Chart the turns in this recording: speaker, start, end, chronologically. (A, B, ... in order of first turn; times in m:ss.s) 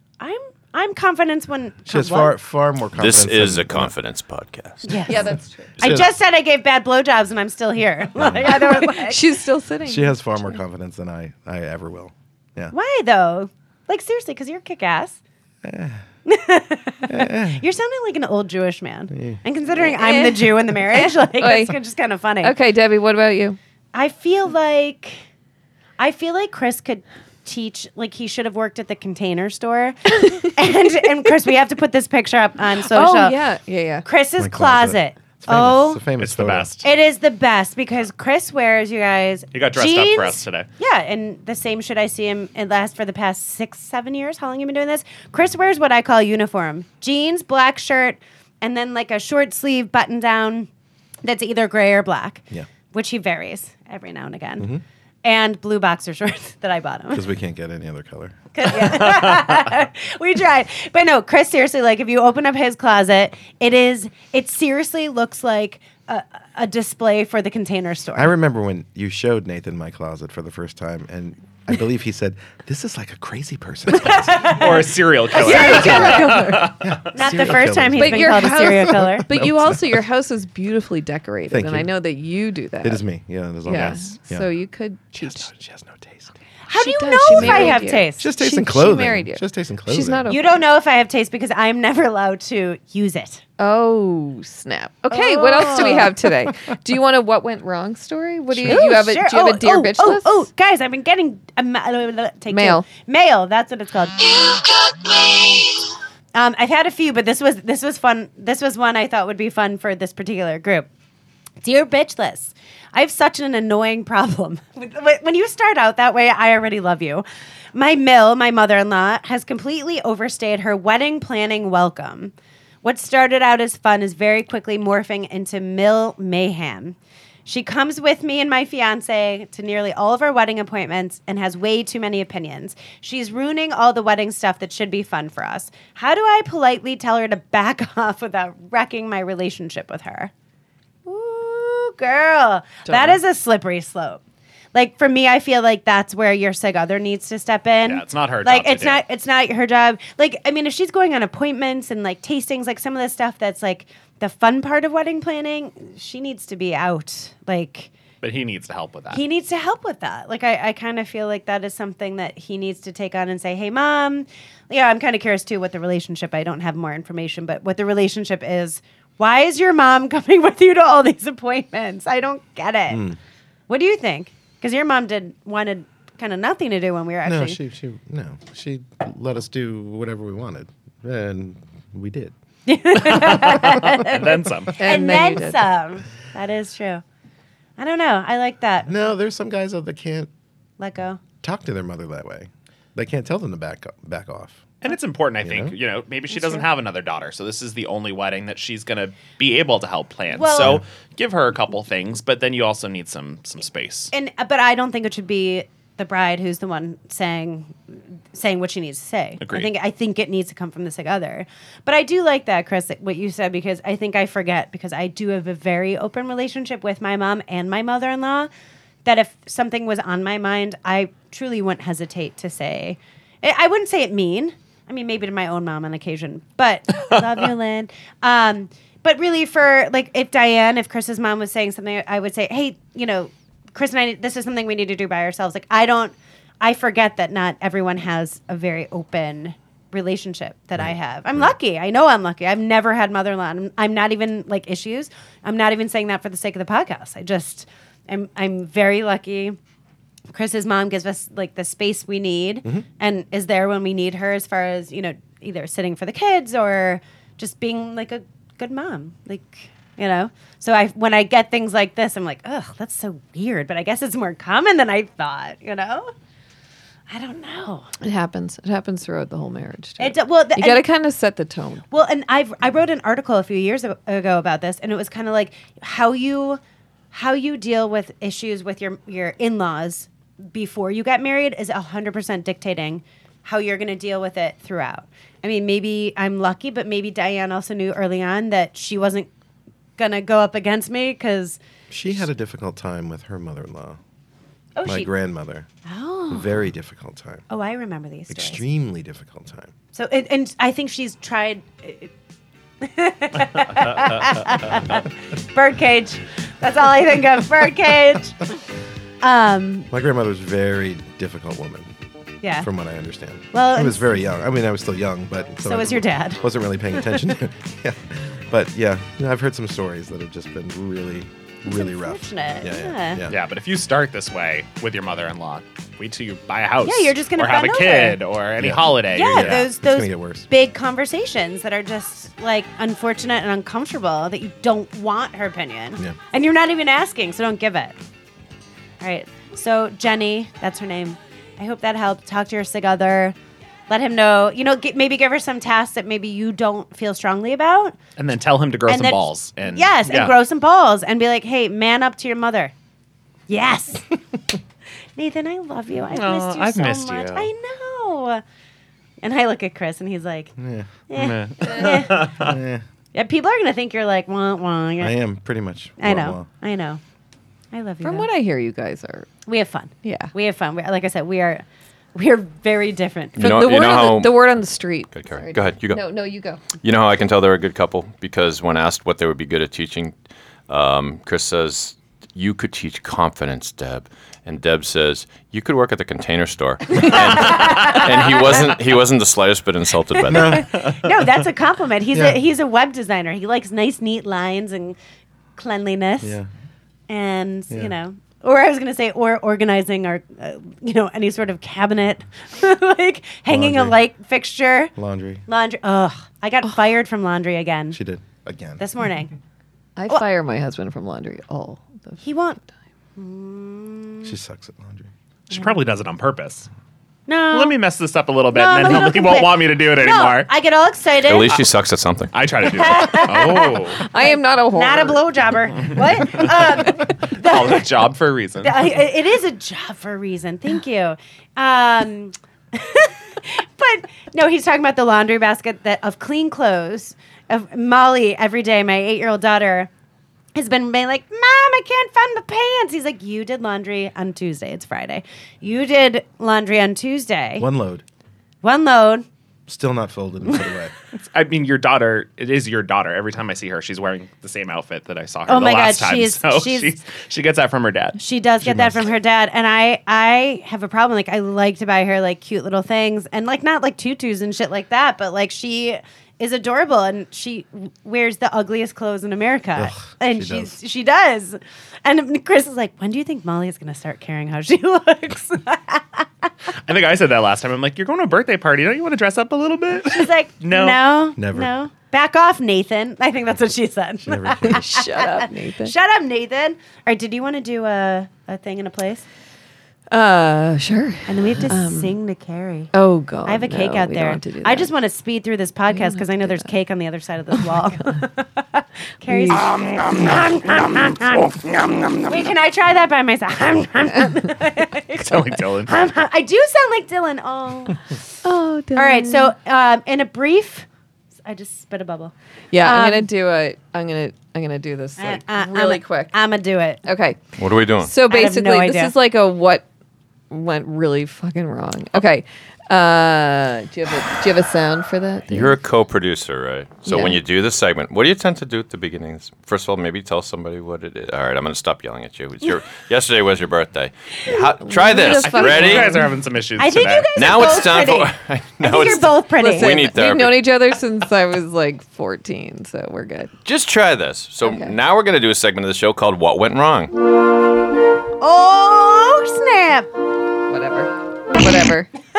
0:00.2-0:02.4 A
0:01.9-0:03.9 B
0:03.0-0:04.9 C
0:04.9-0:09.2 A
0:05.1-0:05.8 D
0:05.8-0:06.1 B
0:08.2-0:08.6 B
0:08.4-0:10.6 D
0:09.8-0:12.7 B
0:12.7-0:15.2 A
0:15.6-0:16.0 B
0:16.3-0:22.6 A
0:17.1-0:17.6 B
0:19.1-0:19.4 B
0:19.8-0:21.8 D
0:22.4-0:23.6 D
0:23.9-0:25.2 A
0:26.0-0:33.4 A
0:32.9-0:34.1 D
0:34.0-0:36.0 A
0:34.4-0:36.8 B
0:36.2-0:36.8 E
0:36.8-0:50.7 A
0:39.5-0:40.7 E
0:51.2-0:54.7 A
0:55.2-0:57.3 A
0:57.1-0:58.5 B
0:58.6-1:08.3 A
1:08.1-1:14.6 B
1:13.9-1:19.2 A
1:14.4-1:16.9 E
1:15.4-1:16.7 D
1:15.6-1:20.0 B
1:17.9-1:23.0 D
1:21.5-1:21.9 B
1:22.8-1:24.5 B
1:23.6-1:25.5 D
1:23.7-1:24.0 E
1:25.1-1:26.3 B
1:26.7-1:28.2 A
1:26.7-1:30.6 D
1:27.3-1:30.3 B
1:30.3-1:33.4 A
1:33.6-1:40.5 D
1:35.1-1:36.1 A
1:38.5-1:38.8 B
1:38.6-1:45.6 A
1:42.5-1:42.9 D
1:46.3-1:50.9 A
1:51.6-2:20.3 A
2:21.0-2:24.2 A
2:22.9-2:23.2 D
2:24.7-2:37.9 A
2:27.8-2:29.0 E
2:38.2-2:39.2 E
2:39.1-2:53.1 A
2:52.9-2:53.2 B
2:53.7-2:57.6 A
2:57.2-3:02.3 B
3:02.6-3:07.0 A
3:03.1-3:04.9 E
3:04.8-3:05.6 D
3:07.8-3:08.9 A
3:08.9-3:10.3 B
3:10.8-3:11.2 A
3:11.4-3:14.7 B
3:14.8-3:24.1 E
3:15.4-3:15.8 B
3:20.3-3:20.8 A
3:24.1-3:38.5 A
3:29.4-3:29.7 E
3:39.0-4:09.6 A
4:00.8-4:01.5 B
4:10.3-4:26.1 A
4:27.1-4:27.9 A
4:28.0-4:31.8 D
4:30.0-4:30.9 A
4:31.9-4:36.6 A
4:37.1-4:49.3 A
4:50.0-4:51.6 A
4:51.9-4:54.0 B
4:54.8-4:55.1 A
4:54.8-4:55.7 B
4:55.8-4:56.6 A
4:56.3-4:57.4 B
4:57.5-4:58.6 A
4:58.3-4:59.7 B
4:59.9-5:02.1 A
5:02.8-5:08.4 A
5:09.2-5:09.9 A
5:09.9-5:11.9 B
5:12.4-5:12.7 A
5:12.6-5:23.4 B
5:13.5-5:14.0 A
5:15.6-5:17.1 A
5:21.6-5:23.2 A
5:23.3-5:29.7 E
5:26.8-5:28.2 A
5:28.6-5:30.5 B
5:29.1-5:37.9 A
5:39.0-5:43.4 A
5:43.9-5:48.0 A
5:48.2-5:50.4 E
5:48.9-5:52.7 A
5:53.5-5:54.1 A
5:55.2-5:58.4 A
5:56.1-5:57.5 E
5:59.2-6:00.6 A
6:00.6-6:00.9 B
6:01.1-6:02.4 A
6:01.1-6:02.6 E
6:02.2-6:02.8 B
6:03.1-6:05.2 A
6:05.0-6:06.5 B
6:06.0-6:07.0 A
6:07.7-6:08.3 A
6:08.0-6:09.3 D
6:09.5-6:11.6 A
6:10.0-6:10.3 D
6:12.1-6:13.5 A
6:13.4-6:14.4 C
6:13.4-6:16.6 D
6:15.1-6:16.1 C
6:16.8-6:20.2 C
6:20.7-6:30.7 C
6:27.0-6:28.8 A
6:27.4-6:28.1 E
6:30.3-6:30.8 B
6:30.3-6:35.0 A
6:32.1-6:32.4 B
6:35.6-6:36.4 A
6:36.2-6:36.5 B
6:37.1-6:44.9 A
6:43.5-6:44.0 B
6:45.0-6:45.4 B
6:45.5-6:48.0 A
6:47.9-6:48.8 B
6:48.8-6:49.3 A
6:50.0-6:52.2 D
6:52.2-6:52.6 A
6:53.2-6:54.3 A
6:54.2-6:55.1 B
6:55.5-6:56.7 E
6:57.3-6:57.8 A
6:57.5-7:00.5 E
6:58.5-7:01.6 A
7:01.2-7:02.4 C
7:02.3-7:04.1 E
7:02.7-7:07.9 A
7:04.0-7:05.4 D
7:05.8-7:09.0 E
7:08.6-7:19.9 A
7:20.5-7:27.7 A
7:27.6-7:28.0 B
7:28.6-7:29.2 A
7:29.7-7:30.9 B
7:31.3-7:38.2 E
7:35.5-7:36.9 A
7:38.2-7:56.5 A
7:38.6-7:39.0 B
7:49.8-7:50.8 B
7:56.9-8:01.0 E
8:00.1-8:09.2 A
8:01.4-8:01.7 B
8:04.2-8:04.8 B
8:04.6-8:05.9 D
8:10.1-8:12.2 D
8:11.3-8:12.9 A
8:12.9-8:14.9 D
8:13.4-8:21.6 A
8:15.9-8:16.6 D
8:17.6-8:18.2 D
8:19.2-8:19.7 D
8:22.2-8:28.2 A
8:25.2-8:26.1 E
8:28.4-8:29.5 D
8:28.9-8:30.9 A
8:31.4-8:33.3 A
8:32.7-8:36.4 D
8:35.2-8:37.0 A
8:37.0-8:37.4 D
8:37.6-8:38.1 C
8:38.0-8:39.8 D
8:38.3-8:39.2 A
8:40.5-8:45.8 D
8:45.5-8:56.3 C
8:47.1-8:47.4 D
8:54.8-8:56.4 D
8:55.2-8:57.4 E
8:56.8-9:00.0 A
8:57.4-9:00.6 C
8:59.6-9:03.5 D
9:03.6-9:07.1 C
9:04.6-9:04.9 D
9:08.4-9:10.1 A
9:10.7-9:12.1 D